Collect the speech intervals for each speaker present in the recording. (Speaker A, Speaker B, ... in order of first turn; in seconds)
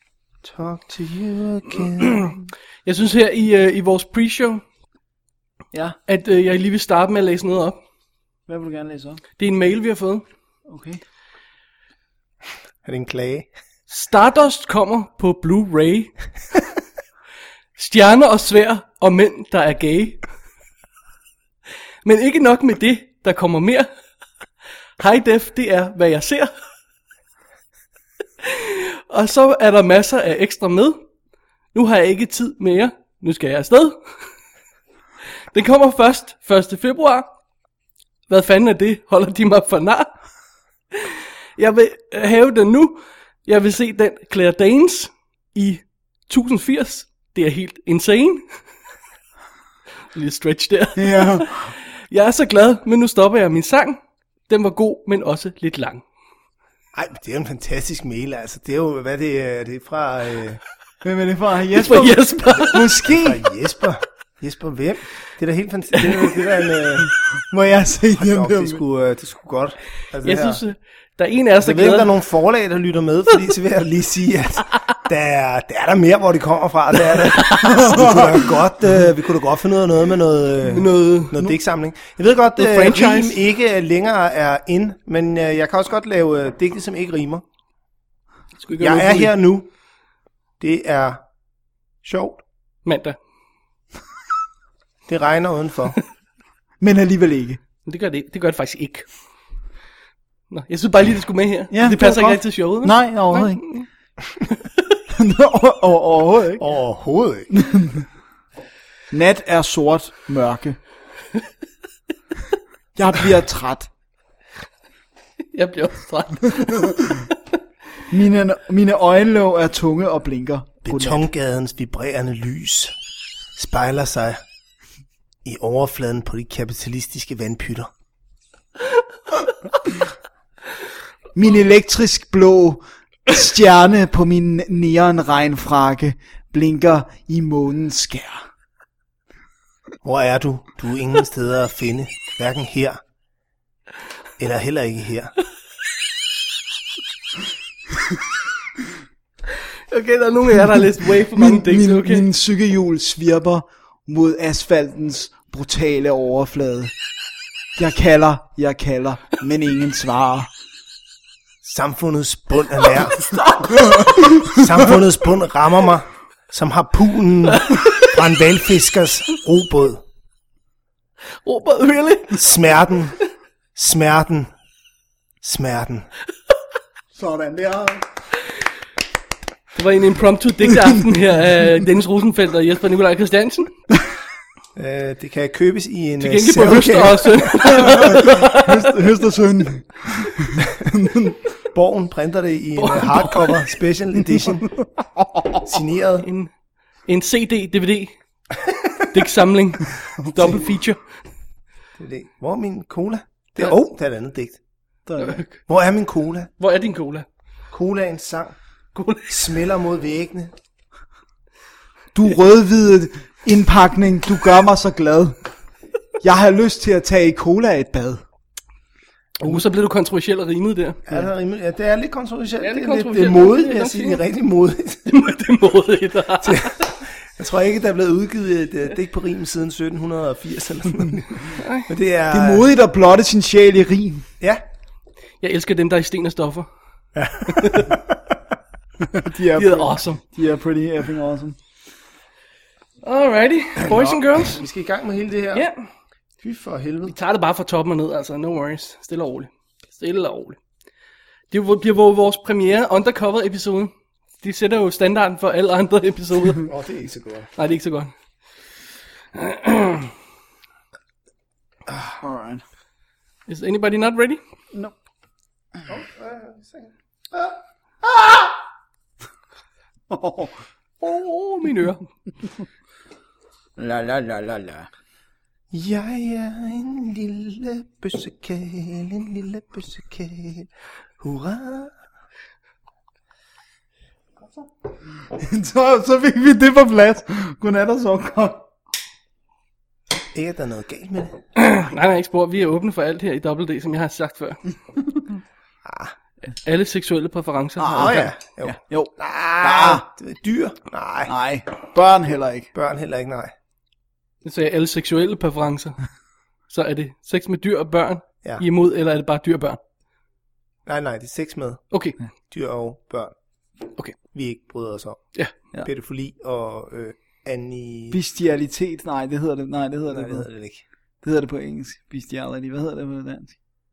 Speaker A: 0.4-2.5, 12.8-13.5, 57.0-60.6, 62.7-67.2, 68.2-70.6, 71.6-87.4, 88.8-89.7, 90.6-91.2, 92.0-92.4, 95.1-96.0, 106.6-107.5, 120.8-123.0, 123.5-124.4, 125.5-127.9, 140.0-143.0, 144.4-145.3, 161.6-163.3, 164.3-170.0, 172.3-173.2, 173.8-174.5, 175.4-176.1, 184.8-187.9, 191.7-194.7, 195.5-196.3, 202.0-204.6, 205.7-206.5, 207.7-208.6, 209.3-210.5, 221.1-225.2, 226.4-232.7, 237.2-238.1, 243.8-245.7, 246.4-247.1, 256.6-257.5, 265.9-267.6, 275.7-281.9, 290.3-291.4, 295.9-296.1, 298.0-301.3, 302.7-303.5, 310.9-311.9, 312.5-313.3, 314.2-318.2, 320.1-320.8
Speaker B: 2.9-4.6, 6.1-7.8, 9.4-10.2, 13.9-16.1, 17.8-20.2, 22.1-23.9, 25.0-26.5, 28.4-31.0, 31.7-34.0, 35.5-37.3, 38.3-40.1, 40.9-48.5, 50.1-56.0, 61.7-62.9, 70.2-72.1, 77.1-78.0, 80.7-81.4, 82.6-83.4, 88.6-89.3, 92.8-93.2, 97.8-99.1, 100.5-105.0, 115.5-117.4, 149.9-152.3, 163.1-164.2, 167.6-168.1, 171.4-172.4, 179.8-183.7, 186.2-188.9, 192.8-193.6, 196.2-196.5, 197.1-198.1, 199.0-201.0, 205.2-205.6, 206.6-207.3, 208.9-209.3, 219.4-221.0, 222.6-224.2, 225.1-226.9, 231.6-231.9, 235.4-236.7, 237.5-237.9, 239.6-240.2, 243.0-244.6, 245.5-245.9, 247.1-250.6, 251.5-256.7, 257.6-258.1, 259.3-260.1, 263.5-264.4, 271.0-272.0, 291.6-294.6, 296.6-298.2, 304.4-306.0, 306.7-309.8, 311.9-312.2
Speaker C: 5.7-6.0, 8.5-9.2, 10.7-11.0, 51.0-51.7, 61.0-63.4, 67.0-68.8, 77.7-78.5, 96.8-97.6, 101.7-103.6, 105.1-106.6, 107.5-108.1, 109.1-110.8, 113.0-113.9, 118.1-121.2, 131.3-138.4, 151.3-156.9, 157.8-160.5, 177.2-178.1, 187.6-191.4, 205.1-205.4, 212.1-215.4, 216.2-218.2, 232.3-234.3, 239.1-241.6, 262.2-262.6, 270.1-270.6, 273.8-274.9, 285.3-288.6, 297.8-300.1, 301.3-302.7, 318.1-320.5, 321.2-323.5